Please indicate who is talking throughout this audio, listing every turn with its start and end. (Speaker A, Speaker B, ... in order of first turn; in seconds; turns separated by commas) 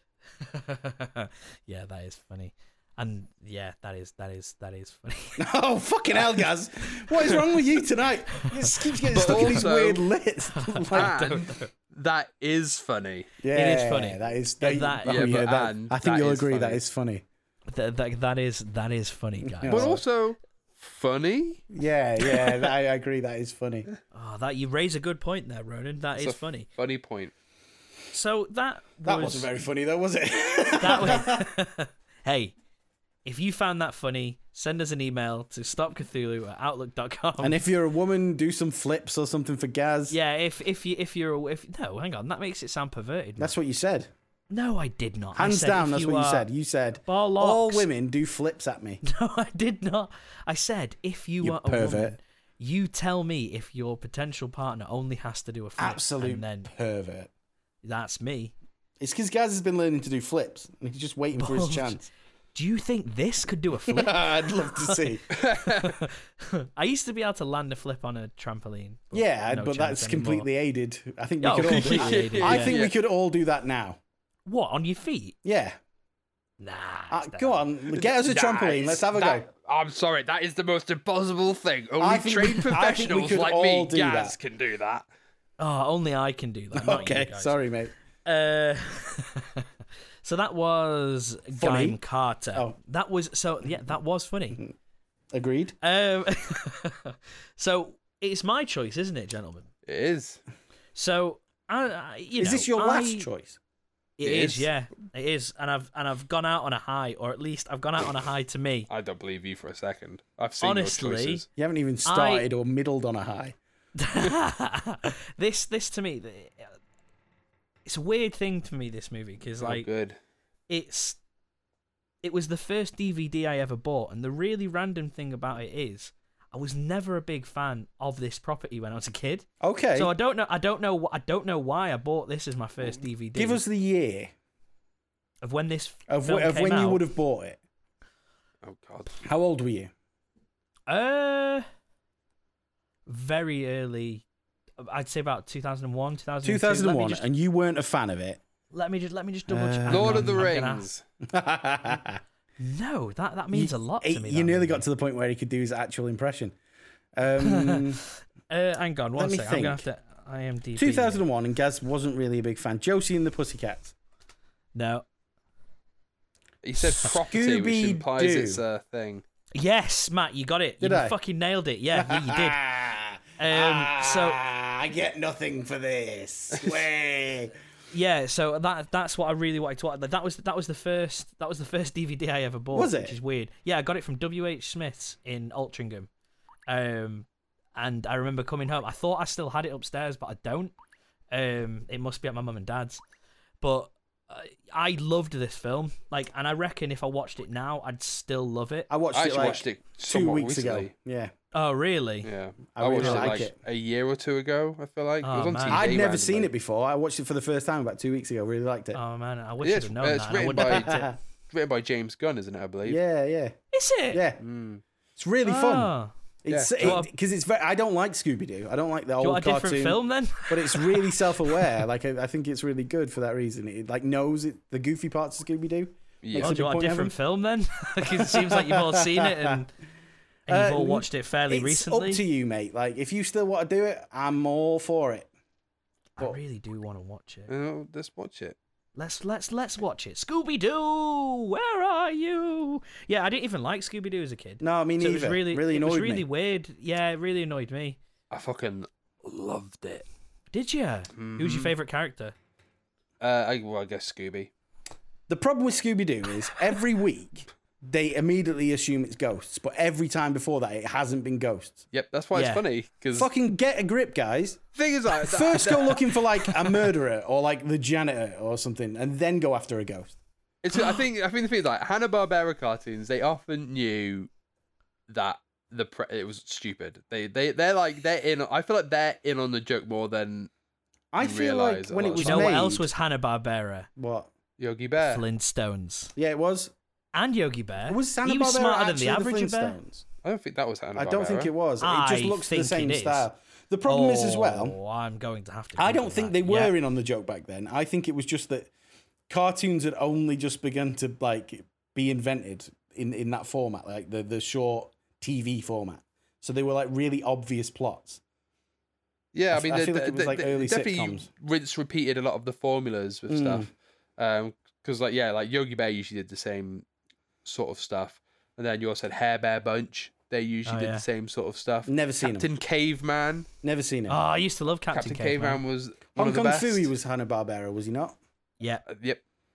Speaker A: 0.4-5.5, Speaker B: 5.4-11.2, Speaker A: 8.4-9.6, Speaker C: 9.1-10.1, Speaker A: 10.5-11.7, Speaker C: 10.9-13.3, Speaker B: 13.4-17.2, Speaker A: 13.5-15.4, Speaker C: 15.1-16.8, Speaker A: 17.7-19.9, Speaker B: 19.4-20.0, Speaker C: 19.7-21.6, Speaker B: 21.7-23.9, Speaker A: 24.1-26.7, Speaker C: 26.2-27.3, Speaker A: 28.1-29.5, Speaker B: 29.1-31.5, Speaker A: 30.8-32.5, Speaker A: 33.2-37.6, Speaker B: 37.4-40.2, Speaker A: 40.1-43.5, Speaker B: 43.4-44.1, Speaker A: 44.5-46.5, Speaker B: 45.4-49.0, Speaker A: 47.0-47.9, Speaker A: 49.0-56.7, Speaker B: 51.4-52.2, Speaker B: 55.8-57.3, Speaker A: 57.8-58.5, Speaker B: 59.0-62.1, Speaker A: 61.4-62.0, Speaker A: 62.5-65.0, Speaker B: 63.9-65.2, Speaker C: 65.3-66.0, Speaker A: 65.6-70.5, Speaker B: 69.1-74.0, Speaker A: 71.4-72.8, Speaker C: 71.6-72.9, Speaker A: 74.5-75.4, Speaker B: 75.5-75.8, Speaker A: 76.6-79.1, Speaker B: 77.1-79.5, Speaker C: 78.5-85.0, Speaker B: 82.0-84.4, Speaker A: 85.6-87.5, Speaker B: 86.7-87.9, Speaker A: 88.2-89.7, Speaker A: 90.2-94.6, Speaker B: 91.6-92.0, Speaker B: 95.3-95.8, Speaker A: 95.8-99.7, Speaker C: 99.9-100.4, Speaker A: 101.0-103.3, Speaker B: 102.4-103.6, Speaker A: 104.2-108.9, Speaker C: 104.2-104.7, Speaker C: 108.9-111.5, Speaker A: 110.6-111.4, Speaker B: 111.6-113.6, Speaker A: 112.1-112.5, Speaker A: 114.0-116.8, Speaker A: 117.9-119.9, Speaker C: 119.6-120.2, Speaker A: 120.7-121.2, Speaker A: 122.2-133.6, Speaker B: 129.6-130.1, Speaker B: 133.4-134.3, Speaker A: 135.4-137.1, Speaker B: 136.1-137.6, Speaker C: 138.6-139.1, Speaker B: 139.2-139.9, Speaker A: 140.9-141.7, Speaker A: 143.1-144.2, Speaker A: 144.8-147.3, Speaker B: 146.4-148.4, Speaker A: 148.7-150.9, Speaker B: 149.5-150.5, Speaker C: 149.9-151.0, Speaker B: 151.3-152.2, Speaker A: 152.6-154.8, Speaker B: 153.5-156.6, Speaker B: 157.2-158.0, Speaker A: 157.4-161.2, Speaker B: 159.2-159.8, Speaker B: 160.8-163.9, Speaker A: 164.8-165.1, Speaker C: 166.6-169.2, Speaker B: 166.8-168.6, Speaker A: 169.6-172.6, Speaker B: 170.8-171.2, Speaker B: 171.9-177.5, Speaker A: 173.4-174.4, Speaker C: 176.5-176.8, Speaker A: 177.9-186.1, Speaker B: 182.7-183.2, Speaker A: 186.7-190.7, Speaker A: 191.3-193.0, Speaker A: 193.6-198.9, Speaker B: 198.9-201.3, Speaker C: 199.1-200.9, Speaker A: 201.5-202.3, Speaker C: 202.2-206.5, Speaker B: 202.8-203.6, Speaker A: 203.0-203.5, Speaker A: 205.2-205.9, Speaker B: 205.7-209.0, Speaker A: 208.9-211.1, Speaker C: 209.6-213.0, Speaker B: 210.6-211.2, Speaker B: 212.8-213.6, Speaker A: 213.7-214.2, Speaker B: 214.1-214.4, Speaker C: 214.4-214.8, Speaker B: 215.2-215.9, Speaker A: 215.4-216.1, Speaker B: 216.4-227.2, Speaker C: 216.5-217.0, Speaker A: 216.8-217.1, Speaker A: 219.2-221.6, Speaker C: 226.2-226.5, Speaker A: 226.4-229.7, Speaker B: 228.2-229.6, Speaker A: 230.5-232.2, Speaker B: 230.5-235.3, Speaker A: 236.2-237.5, Speaker C: 237.5-238.6, Speaker A: 239.0-248.0, Speaker B: 244.6-246.2, Speaker C: 248.3-250.1, Speaker A: 250.5-252.3, Speaker C: 251.2-251.7, Speaker C: 253.2-254.5, Speaker B: 255.3-261.9, Speaker C: 261.9-263.3, Speaker A: 262.3-262.6, Speaker B: 263.2-270.2, Speaker C: 264.8-266.9, Speaker C: 270.6-274.3, Speaker C: 275.1-280.5, Speaker B: 281.1-282.9, Speaker C: 281.2-282.6, Speaker A: 282.2-283.9, Speaker B: 284.0-284.3, Speaker C: 284.6-285.2, Speaker A: 285.0-286.1, Speaker B: 286.2-286.7, Speaker A: 287.1-289.8, Speaker B: 287.9-290.1, Speaker C: 290.2-291.5, Speaker B: 291.0-294.8, Speaker A: 291.8-293.3, Speaker A: 293.9-296.8, Speaker B: 295.8-298.7, Speaker B: 299.3-308.2, Speaker C: 309.3-316.9, Speaker B: 309.5-311.3, Speaker B: 313.3-313.7, Speaker C: 317.4-323.5, Speaker A: 320.7-321.0, Speaker B: 321.9-322.5, Speaker B: 323.6-324.2, Speaker A: 324.1-325.6, Speaker C: 324.9-326.9, Speaker B: 326.2-328.2, Speaker C: 328.9-329.2